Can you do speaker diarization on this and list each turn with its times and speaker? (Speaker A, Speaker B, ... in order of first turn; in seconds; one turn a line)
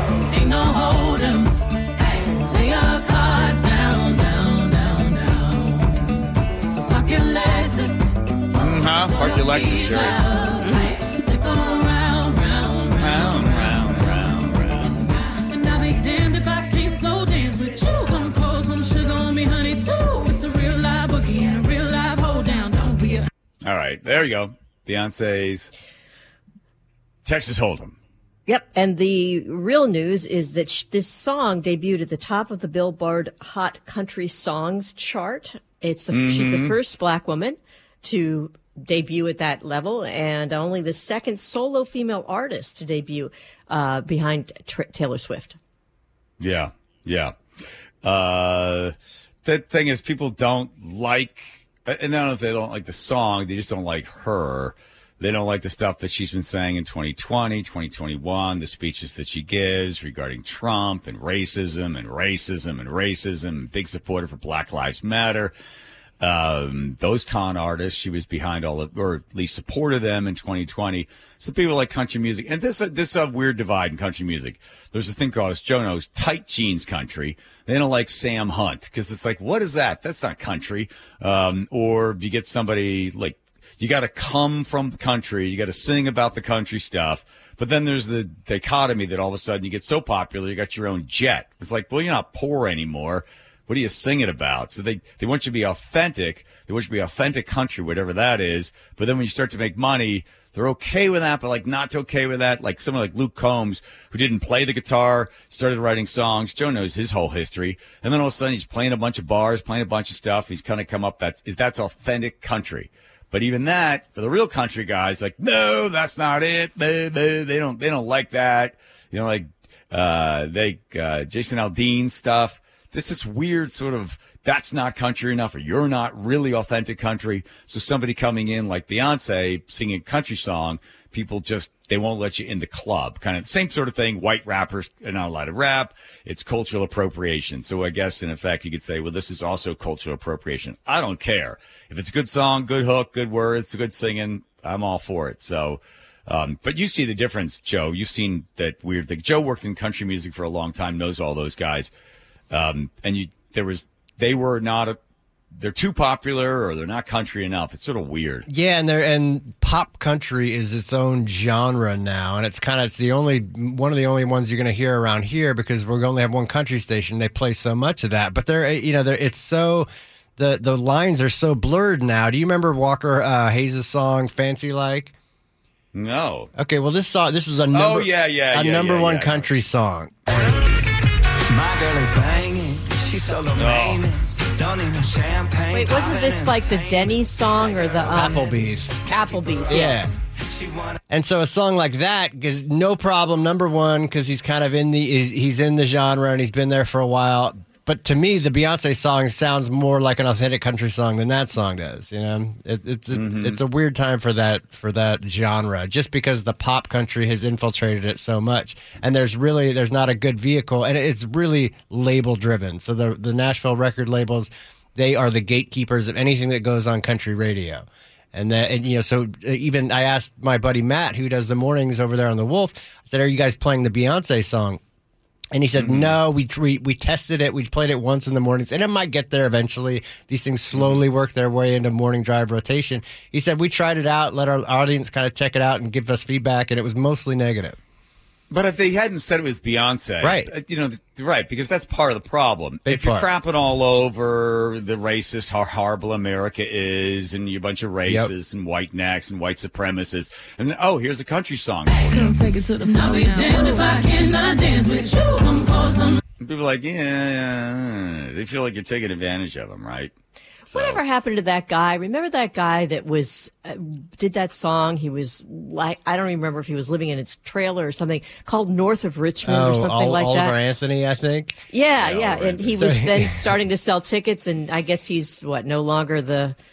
Speaker A: 0.3-8.1
Speaker B: 8.5-10.2
Speaker A: 9.0-23.3
Speaker C: 10.6-10.9
Speaker B: 13.0-15.0
Speaker B: 23.6-25.7
Speaker B: 27.2-28.0
Speaker C: 28.5-45.6
Speaker B: 36.1-36.8
Speaker B: 46.4-47.3
Speaker B: 48.0-65.5
Speaker B: 66.2-151.9
Speaker B: 152.5-155.0
Speaker B: 155.5-158.5
Speaker D: 158.5-175.1
Speaker B: 175.9-176.5
Speaker D: 176.6-180.2
Speaker B: 177.7-179.5
Speaker E: 180.4-180.8
Speaker E: 181.5-188.2
Speaker B: 183.5-184.0
Speaker C: 185.7-190.2
Speaker D: 188.1-189.0
Speaker E: 189.1-190.0
Speaker D: 189.7-190.1
Speaker E: 190.5-190.9
Speaker D: 191.1-224.8
Speaker B: 203.1-203.6
Speaker D: 225.5-237.8
Speaker B: 225.8-226.2
Speaker B: 230.7-231.0
Speaker B: 238.5-252.4
Speaker D: 240.2-240.5
Speaker D: 242.8-243.3
Speaker A: 251.9-256.2
Speaker B: 256.4-260.1
Speaker C: 260.7-270.6
Speaker B: 260.7-261.0
Speaker D: 269.4-271.6
Speaker C: 271.7-276.6
Speaker B: 272.0-272.7
Speaker D: 272.7-273.4